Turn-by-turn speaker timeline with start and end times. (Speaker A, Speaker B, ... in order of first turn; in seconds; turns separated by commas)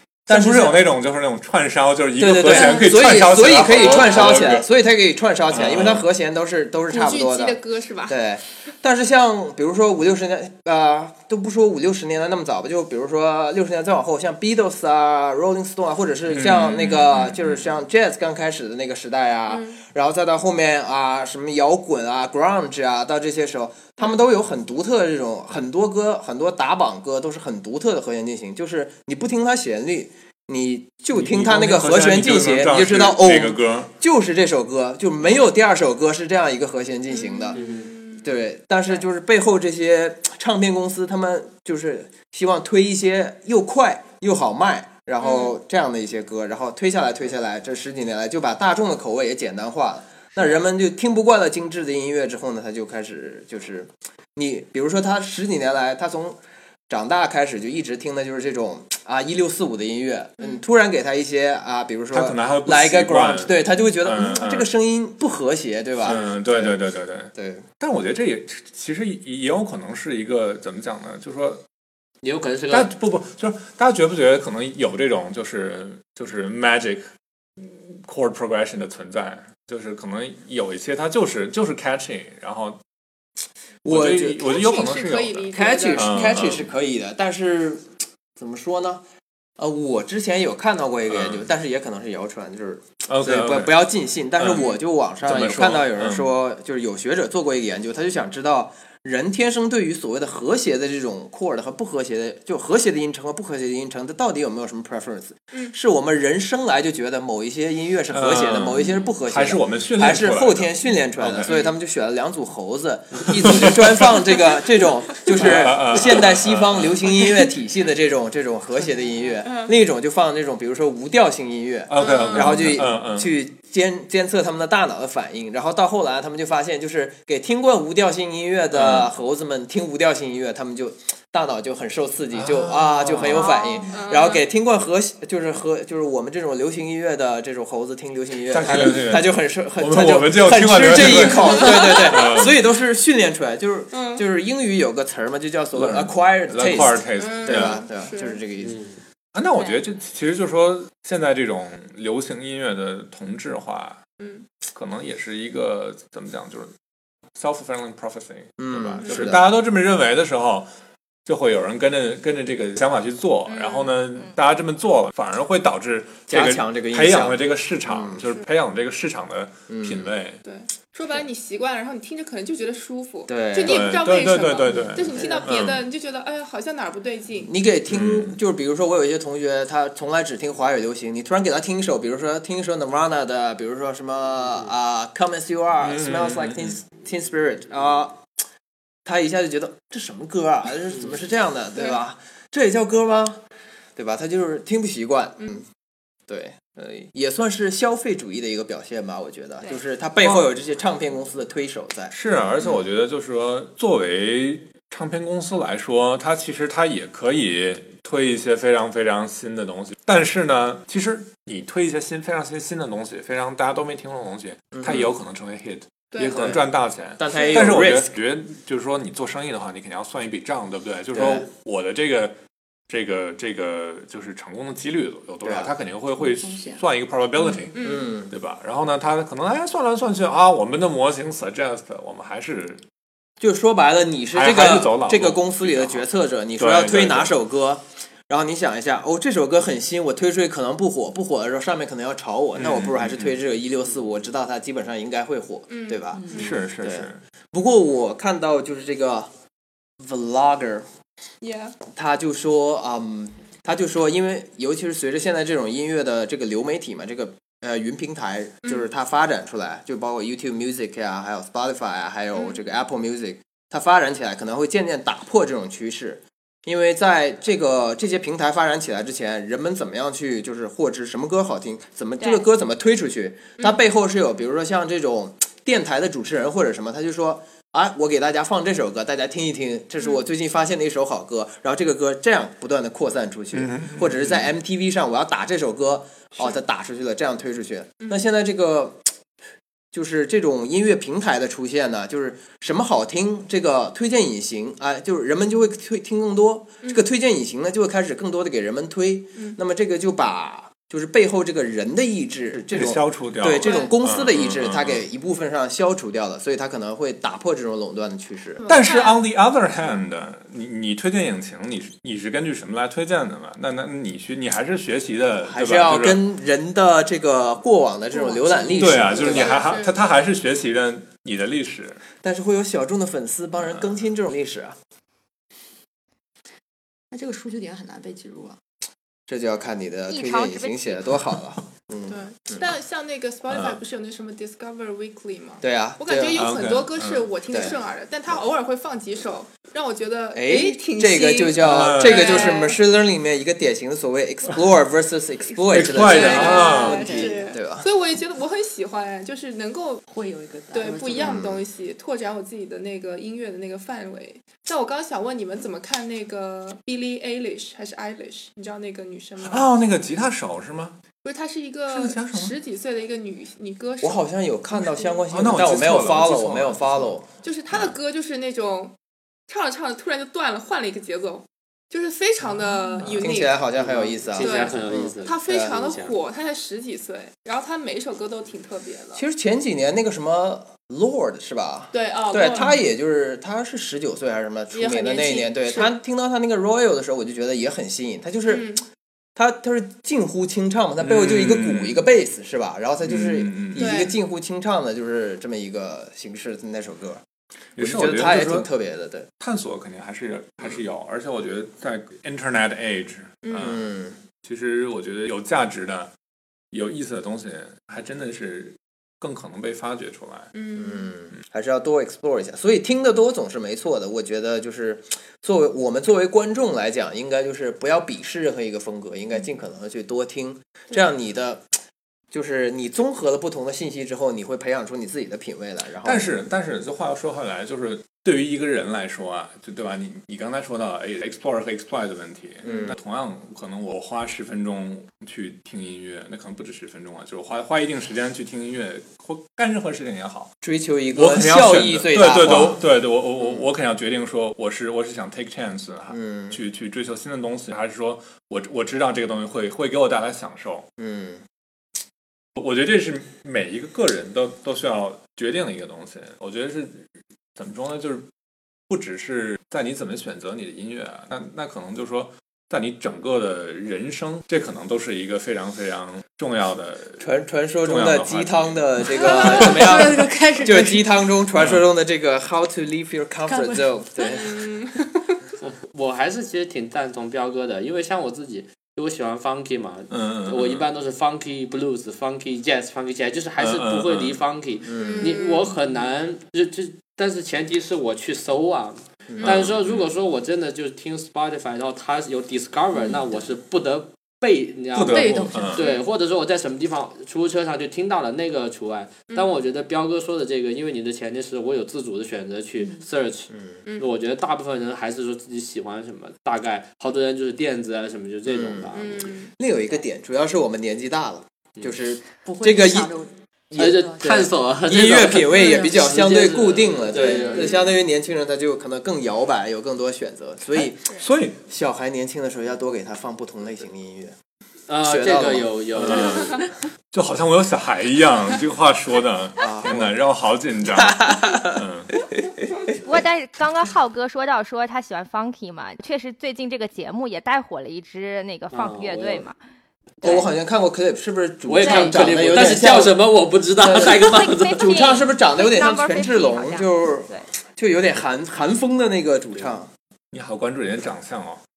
Speaker A: 0.3-4.7, Speaker B: 0.3-0.9, Speaker B: 2.2-37.6, Speaker A: 5.5-6.1, Speaker C: 6.9-8.2, Speaker A: 16.3-17.6, Speaker C: 19.5-19.8, Speaker A: 31.1-33.9, Speaker C: 37.1-38.3, Speaker D: 37.5-37.9, Speaker B: 38.2-56.4, Speaker C: 45.2-45.5, Speaker B: 56.9-66.8, Speaker A: 62.1-64.7, Speaker A: 66.0-71.6, Speaker B: 67.3-67.7, Speaker D: 72.2-72.9, Speaker A: 72.7-77.1, Speaker A: 77.6-82.8, Speaker B: 83.8-84.7, Speaker A: 83.9-86.7, Speaker C: 84.4-86.3, Speaker B: 85.5-89.0, Speaker B: 89.6-148.8, Speaker A: 91.1-91.5, Speaker A: 93.1-93.8, Speaker A: 94.4-94.7, Speaker C: 94.5-94.8, Speaker A: 95.2-96.3, Speaker A: 108.1-111.5, Speaker C: 111.5-111.7, Speaker A: 113.3-114.2, Speaker A: 115.3-117.2, Speaker A: 121.9-123.3, Speaker C: 122.0-122.6, Speaker A: 128.7-129.1, Speaker A: 132.3-133.5, Speaker E: 133.3-133.9, Speaker C: 133.9-134.4, Speaker A: 138.5-142.6, Speaker C: 141.5-142.3, Speaker C: 143.9-144.2, Speaker A: 145.8-147.8, Speaker C: 147.2-148.4, Speaker D: 148.6-149.0, Speaker A: 149.3-154.0, Speaker E: 149.6-149.8, Speaker C: 154.2-154.5, Speaker A: 154.7-156.7, Speaker A: 157.4-160.7, Speaker B: 158.6-159.5, Speaker C: 159.0-159.3, Speaker A: 161.3-170.4, Speaker C: 163.5-163.9, Speaker B: 166.3-168.2, Speaker B: 169.7-170.1, Speaker C: 170.4-177.5, Speaker B: 173.3-174.0, Speaker A: 173.6-175.8, Speaker B: 175.2-175.5, Speaker B: 177.4-188.3, Speaker A: 177.9-178.4, Speaker A: 185.8-186.8, Speaker B: 189.1-193.4, Speaker B: 194.0-195.7, Speaker C: 195.4-195.6, Speaker B: 196.3-202.9, Speaker A: 202.1-222.4, Speaker B: 214.8-215.1, Speaker C: 216.1-216.5, Speaker B: 216.3-216.6, Speaker B: 217.2-218.1, Speaker C: 217.3-217.6, Speaker B: 221.1-221.5, Speaker A: 222.9-232.8, Speaker B: 225.4-225.7, Speaker F: 226.2-226.8, Speaker C: 227.7-228.2, Speaker B: 227.8-228.3, Speaker B: 233.4-249.3, Speaker A: 234.3-236.1, Speaker A: 236.6-237.4, Speaker A: 242.6-243.3, Speaker C: 245.7-246.6, Speaker F: 246.1-246.5, Speaker A: 246.3-247.2, Speaker B: 250.0-250.9, Speaker C: 251.4-251.8, Speaker B: 251.9-289.1, Speaker E: 272.2-272.5, Speaker A: 283.5-284.5, Speaker B: 289.9-308.6, Speaker A: 302.7-305.0, Speaker C: 303.6-303.9, Speaker C: 308.6-309.2, Speaker A: 308.7-316.2, Speaker B: 315.4-319.6, Speaker F: 318.1-318.9, Speaker A: 318.8-322.0, Speaker C: 318.8-319.9, Speaker B: 322.2-324.8, Speaker F: 327.1-328.6, Speaker B: 329.3-332.7, Speaker E: 330.1-331.0, Speaker C: 332.1-342.8, Speaker A: 333.5-333.8, Speaker B: 335.6-336.5, Speaker A: 336.4-337.3, Speaker B: 337.5-337.8, Speaker B: 340.3-347.9, Speaker A: 341.6-342.6, Speaker A: 345.7-347.3, Speaker C: 346.0-350.0, Speaker F: 346.4-347.5, Speaker F: 350.1-351.4, Speaker C: 350.7-359.7, Speaker B: 351.1-351.6, Speaker A: 359.4-361.0, Speaker C: 361.2-364.2, Speaker A: 361.9-362.6, Speaker B: 364.0-367.3, Speaker C: 364.8-365.2, Speaker A: 365.3-367.2, Speaker C: 367.4-368.9, Speaker A: 367.7-368.0, Speaker C: 369.5-373.6, Speaker B: 373.2-375.7, Speaker D: 373.8-376.2, Speaker C: 374.4-379.2, Speaker B: 379.1-388.8, Speaker C: 381.9-382.8, Speaker C: 384.7-385.9, Speaker C: 388.5-388.8, Speaker B: 389.4-397.2, Speaker A: 391.0-392.1, Speaker A: 393.1-394.1, Speaker C: 393.8-394.1, Speaker A: 397.8-398.7, Speaker B: 397.8-399.3, Speaker A: 399.4-403.8, Speaker C: 403.4-403.8, Speaker B: 403.6-404.2, Speaker A: 404.4-406.1, Speaker A: 406.7-410.5, Speaker C: 410.5-411.1, Speaker B: 410.8-421.7, Speaker B: 422.3-426.3, Speaker A: 426.0-440.5, Speaker B: 432.6-433.0, Speaker B: 440.6-442.8, Speaker A: 441.1-450.9, Speaker B: 446.1-446.6, Speaker B: 451.0-451.4, Speaker A: 452.6-457.1, Speaker A: 457.6-458.3, Speaker A: 458.9-467.3, Speaker B: 467.2-474.6, Speaker A: 467.8-470.1, Speaker F: 469.2-471.1, Speaker F: 473.5-473.9, Speaker C: 474.2-475.4, Speaker D: 475.6-509.3, Speaker A: 480.1-480.9, Speaker A: 483.6-484.4, Speaker B: 484.9-485.4, Speaker C: 485.0-485.8, Speaker B: 489.3-489.6, Speaker A: 489.4-490.1, Speaker F: 493.0-493.4, Speaker A: 494.9-495.8, Speaker F: 495.1-495.9, Speaker C: 495.8-496.1, Speaker C: 499.3-499.6, Speaker F: 502.8-503.1, Speaker B: 503.6-503.8, Speaker C: 503.9-504.1, Speaker B: 508.5-508.9, Speaker C: 508.9-509.5, Speaker B: 509.5-513.1, Speaker F: 512.4-514.5, Speaker B: 513.7-524.4, Speaker D: 513.8-517.7, Speaker F: 515.5-516.2, Speaker C: 517.2-518.0, Speaker A: 521.1-521.6, Speaker D: 524.9-526.7, Speaker B: 525.0-526.3, Speaker A: 526.0-532.1, Speaker B: 529.6-530.1, Speaker B: 531.0-531.8, Speaker E: 533.0-539.6, Speaker D: 538.7-539.5, Speaker E: 540.2-540.5, Speaker B: 540.2-543.2, Speaker D: 541.7-544.9, Speaker E: 541.8-542.2, Speaker B: 543.8-549.9, Speaker E: 544.0-547.5, Speaker A: 550.3-551.6